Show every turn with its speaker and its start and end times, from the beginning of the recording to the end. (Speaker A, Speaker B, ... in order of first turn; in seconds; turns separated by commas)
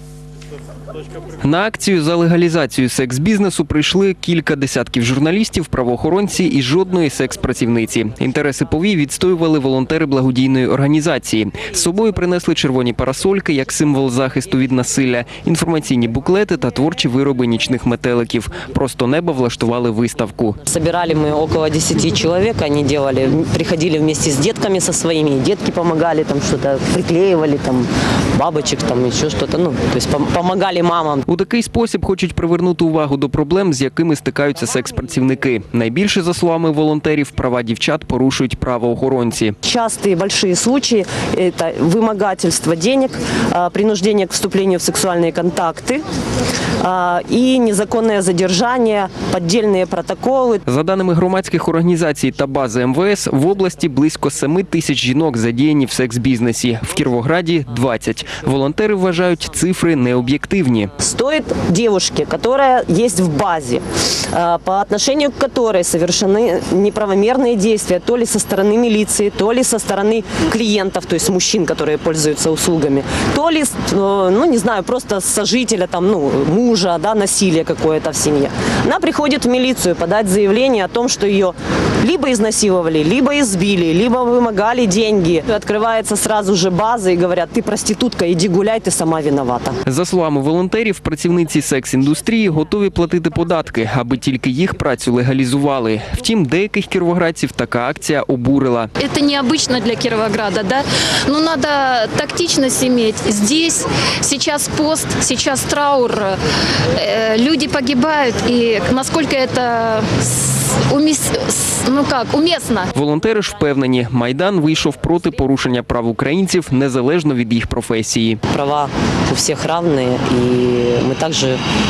Speaker A: 1.4-20.6, Speaker B: 20.6-31.3, Speaker A: 31.3-39.6, Speaker B: 39.6-46.0, Speaker B: 46.8-50.6, Speaker A: 50.7-60.9, Speaker B: 61.0-89.8, Speaker A: 89.9-98.9, Speaker C: 99.0-106.3, Speaker C: 107.0-112.9, Speaker A: 113.0-118.4, Speaker B: 118.5-121.6